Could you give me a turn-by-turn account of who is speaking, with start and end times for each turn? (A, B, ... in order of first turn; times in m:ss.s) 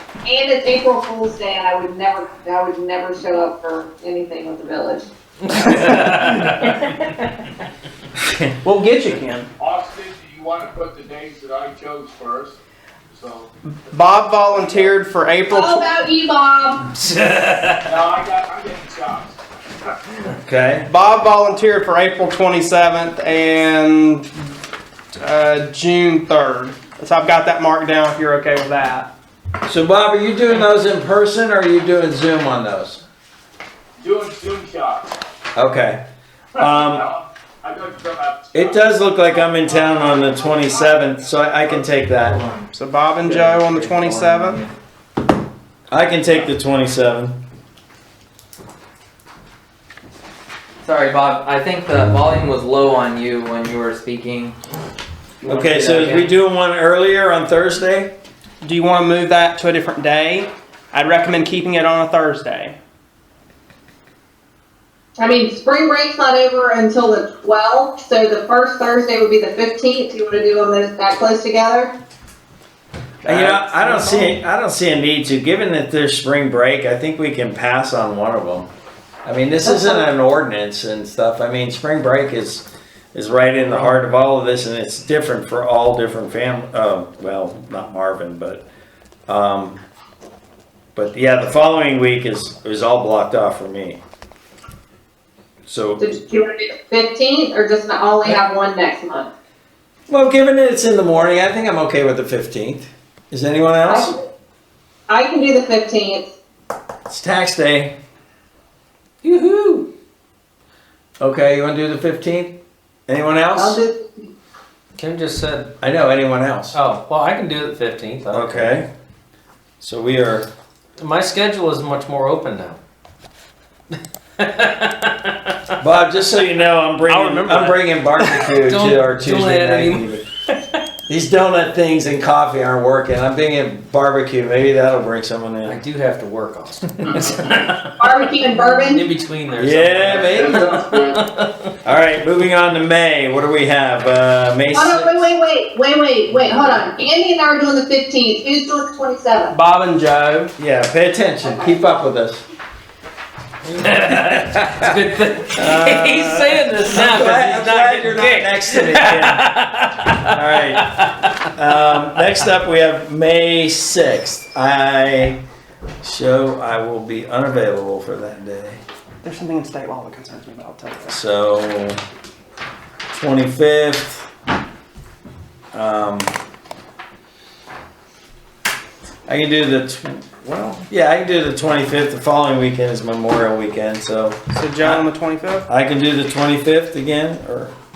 0:00.3-0:05.1 A
0:05.5-0:06.8 B
0:05.9-0:06.6 C
0:08.6-0:09.5 C
0:09.6-0:12.6 D
0:13.1-0:13.5 D
0:13.7-0:15.8 C
0:15.5-0:16.9 A
0:17.0-0:18.0 B
0:17.8-0:19.4 D
0:20.3-0:20.9 E
0:20.9-0:24.3 C
0:25.1-0:29.1 C
0:29.7-0:33.0 E
0:34.0-0:35.1 D
0:35.6-0:36.0 E
0:36.6-0:37.0 E
0:36.6-0:38.9 D
0:38.5-0:42.4 E
0:40.2-0:40.5 A
0:42.7-0:44.6 C
0:43.3-0:44.7 B
0:45.9-0:47.4 E
0:50.8-0:54.6 F
0:55.4-0:58.1 E
0:55.5-0:56.2 F
0:58.6-1:02.8 C
1:05.2-1:12.0 A
1:13.2-1:14.3 C
1:13.2-1:18.7 E
1:19.2-1:28.6 E
1:19.6-1:20.1 A
1:23.6-1:23.9 B
1:29.3-1:29.8 E
1:31.0-1:34.0 E
1:35.7-1:36.1 E
1:36.0-1:39.3 A
1:40.1-1:44.1 E
1:43.9-1:44.1 A
1:45.1-1:46.3 A
1:47.1-1:48.0 E
1:49.2-1:49.9 B
1:51.2-1:52.6 E
1:53.1-1:53.8 E
1:53.5-1:54.3 A
1:55.0-1:55.8 B
1:55.8-1:56.8 E
1:56.7-1:58.8 B
1:58.3-1:58.9 E
1:59.8-2:00.5 E
2:01.0-2:02.8 B
2:04.4-2:05.5 B
2:05.8-2:10.2 E
2:07.1-2:07.7 C
2:07.4-2:10.1 B
2:11.1-2:15.8 E
2:15.6-2:21.7 B
2:17.1-2:17.4 D
2:18.0-2:19.0 A
2:19.6-2:20.7 E
2:20.1-2:21.2 D
2:21.8-2:25.3 E
2:24.7-2:29.6 A
2:29.5-2:30.5 C
2:30.6-2:32.4 E
2:33.6-2:42.4 B
2:34.4-2:34.8 E
2:35.6-2:39.5 E
2:40.3-2:41.0 E
2:41.5-2:45.4 E
2:46.0-2:48.8 E
2:49.2-2:51.2 C
2:51.1-2:52.0 E
2:53.1-2:54.3 E
2:55.7-2:56.3 E
2:59.3-3:05.1 E
3:04.5-3:05.7 C
3:05.7-3:07.7 E